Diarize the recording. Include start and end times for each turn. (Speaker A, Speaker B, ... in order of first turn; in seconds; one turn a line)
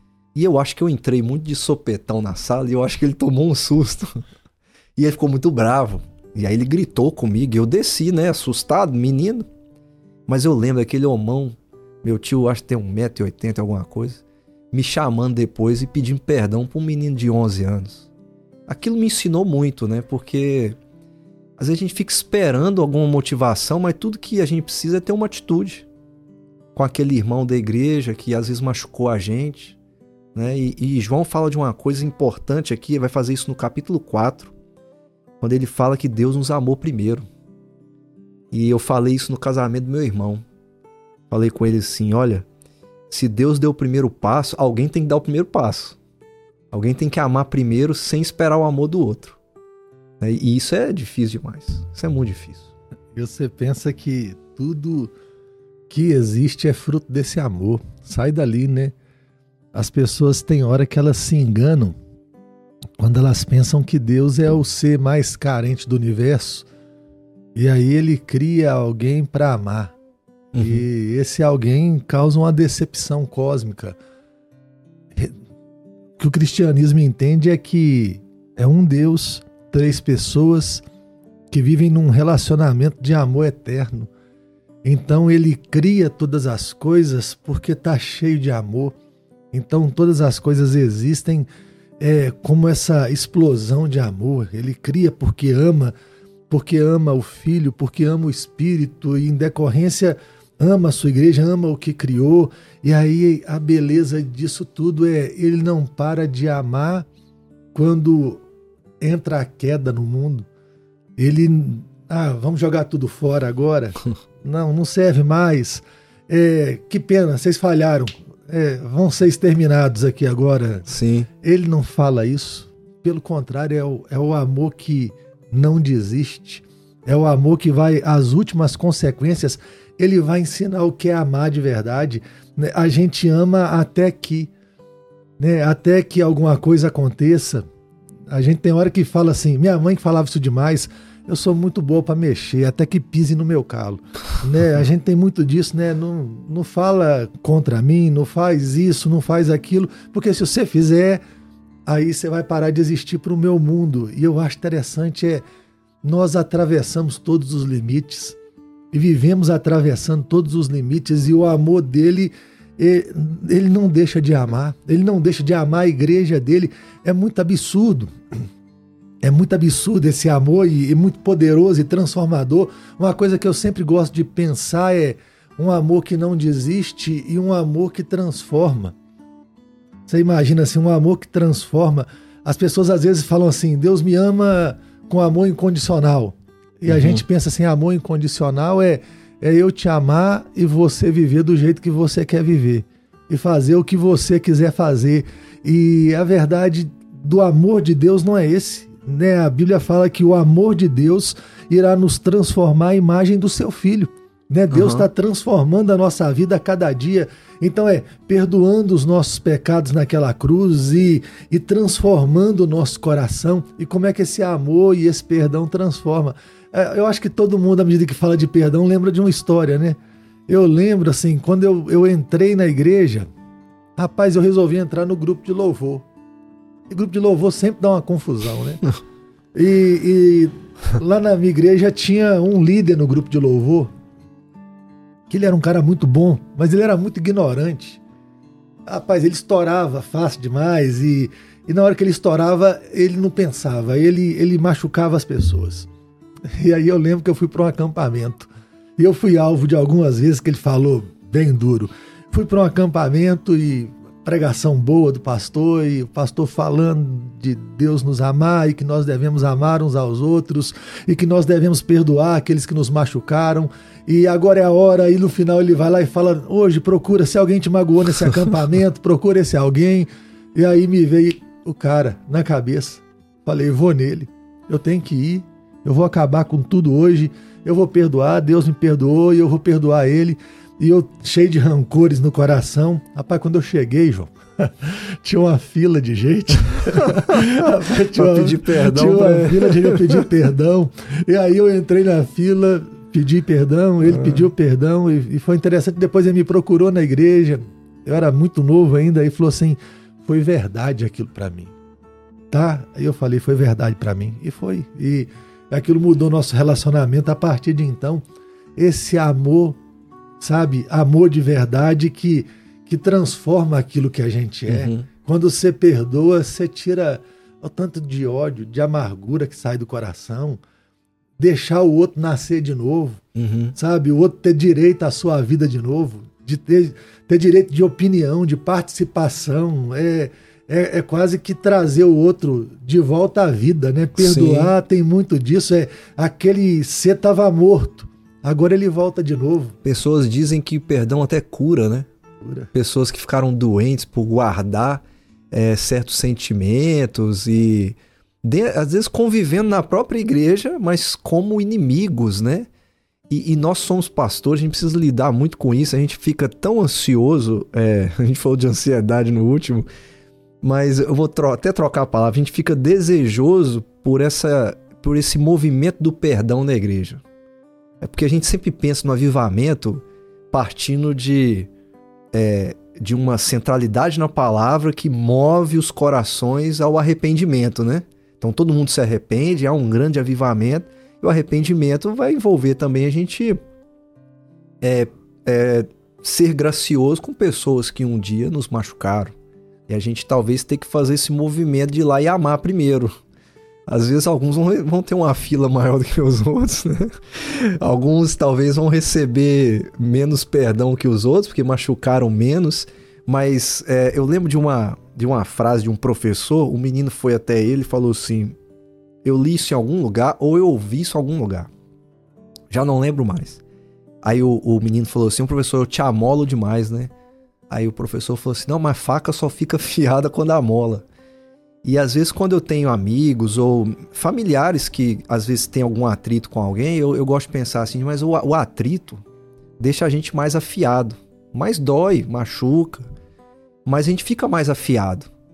Speaker A: 0.3-4.2
Speaker A: 5.0-9.5
Speaker A: 10.3-18.1
Speaker A: 18.7-20.8
Speaker A: 21.6-25.9
Speaker A: 26.8-29.8
Speaker A: 30.3-34.5
Speaker A: 35.4-37.3
Speaker A: 38.5-40.5
Speaker A: 41.3-42.5
Speaker A: 43.1-46.0
Speaker A: 46.7-49.4
Speaker A: 50.2-52.7
Speaker B: 53.1-55.1
Speaker B: 55.9-58.9
Speaker B: 59.7-62.0
Speaker B: 63.0-66.7
Speaker B: 67.5-69.9
Speaker A: 70.5-70.9
Speaker B: 70.6-74.0
Speaker B: 76.2-80.8
Speaker B: 81.5-84.1
Speaker B: 84.8-88.9
Speaker B: 89.5-91.5
Speaker B: 92.0-95.9
Speaker B: 96.5-107.1
Speaker B: 107.7-108.4
Speaker B: 109.0-110.5
Speaker B: 111.2-120.9
Speaker A: 120.9-121.3
Speaker B: 121.4-134.5
Speaker B: 135.4-137.7
Speaker B: 138.3-151.2
Speaker B: 151.9-155.4
Speaker B: 156.0-158.4
Speaker B: 158.9-168.1
Speaker B: 169.2-178.9
Speaker B: 180.1-220.0
Speaker A: 186.9-187.2
Speaker A: 204.7-205.1
Speaker B: 220.5-223.3
Speaker B: 224.0-226.1
Speaker B: 226.9-228.9
Speaker B: 229.6-233.9
Speaker B: 235.3-238.0
Speaker B: 238.9-245.9
Speaker B: 246.5-301.7
Speaker A: 287.1-287.4
Speaker A: 288.1-290.3
Speaker A: 294.1-294.5
Speaker B: 302.5-308.2
Speaker B: 308.8-309.8
Speaker B: 310.4-320.6
Speaker A: 314.7-315.1
Speaker B: 321.4-323.2
Speaker A: 323.4-323.8
Speaker B: 323.8-339.8
Speaker A: 334.2-334.8
Speaker A: 339.8-342.1
Speaker B: 342.4-342.7
Speaker A: 342.7-352.7
Speaker A: 353.3-359.9
Speaker A: 360.6-367.2
Speaker A: 368.0-371.7
Speaker A: 372.3-383.6
Speaker A: 384.8-389.4
Speaker A: 389.9-393.1
Speaker A: 393.9-408.6
Speaker A: 409.2-411.7
Speaker A: 412.7-413.6
Speaker A: 414.2-417.1
Speaker A: 417.7-421.0
Speaker A: 421.8-429.2
Speaker A: 429.8-433.1
Speaker A: 433.9-435.3